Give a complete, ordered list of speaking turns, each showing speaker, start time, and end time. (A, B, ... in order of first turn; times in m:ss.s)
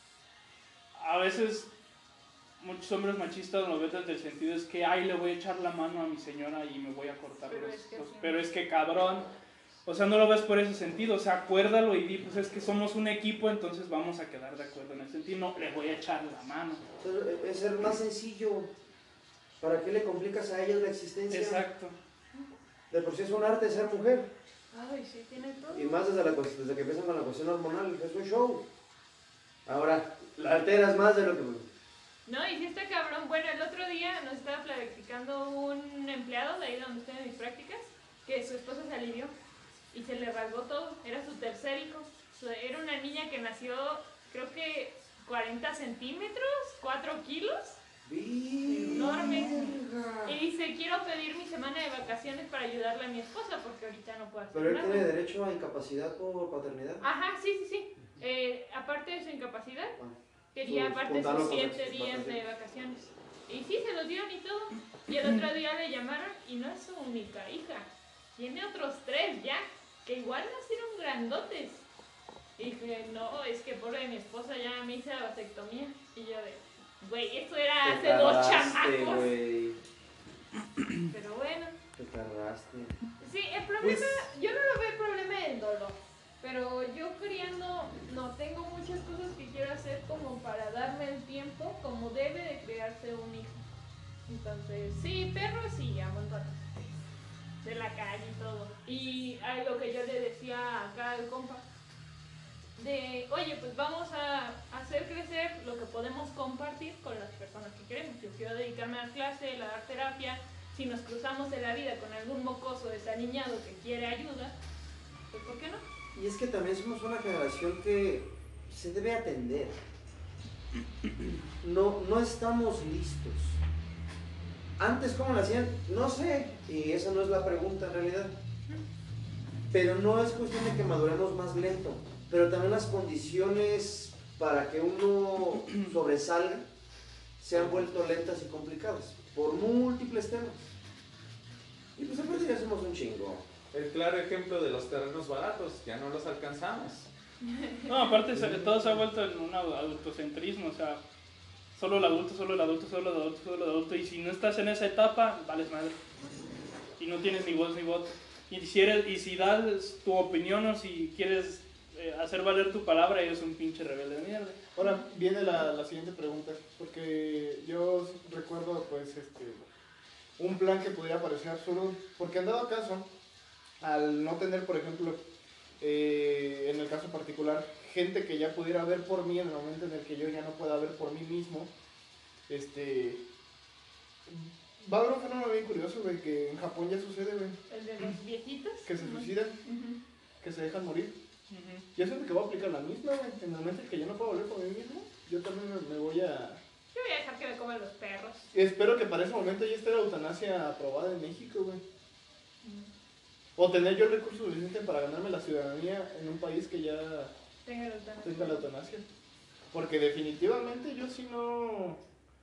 0:01.0-0:01.7 A
0:02.6-0:09.3 A
0:07.5-0:08.4 B
0:09.8-0:16.8 A
0:17.0-0:18.7 C
0:19.6-0:21.6 C
0:21.3-0:22.0 A
0:22.9-0:24.3 C
0:24.7-0:26.0 B
0:25.7-0:28.6 C
0:29.7-0:31.7 C
0:32.3-0:39.3 B
0:39.9-0:47.8 B
0:48.0-0:50.4 C
0:48.7-0:55.1 B
0:54.5-0:57.0 C
0:57.0-1:00.0 B
1:00.0-1:02.4 C
1:00.5-1:11.8 B
1:12.6-1:19.4 B
1:17.8-1:19.8 C
1:21.1-1:21.8 B
1:22.0-1:23.0 C
1:23.2-1:33.6 B
1:23.8-1:24.3 D
1:34.3-1:36.6 B
1:37.6-1:41.6 B
1:42.8-1:54.6 B
1:55.3-1:55.8 B
1:56.1-1:59.8 C
2:01.6-2:03.6 C
2:04.8-2:08.4 C
2:09.7-2:16.7 C
2:17.4-2:20.7 C
2:17.5-2:17.8 D
2:22.0-2:23.5 C
2:23.7-2:27.1 D
2:27.4-2:27.9 B
2:27.9-2:31.0 A
2:28.4-2:28.7 E
2:31.8-2:36.0 A
2:37.0-2:44.6 A
2:44.8-2:49.7 E
2:50.4-2:53.1 E
2:53.8-2:55.2 E
2:55.8-3:01.7 E
3:02.5-3:03.2 E
3:04.3-3:07.6 E
3:07.7-3:10.0 B
3:08.9-3:09.6 E
3:10.4-3:11.2 E
3:11.5-3:11.9 A
3:12.0-3:16.6 E
3:16.9-3:18.5 B
3:18.5-3:21.8 E
3:22.6-3:22.9 B
3:23.6-3:27.3 E
3:27.6-3:28.6 B
3:28.2-3:29.0 E
3:29.7-3:32.0 E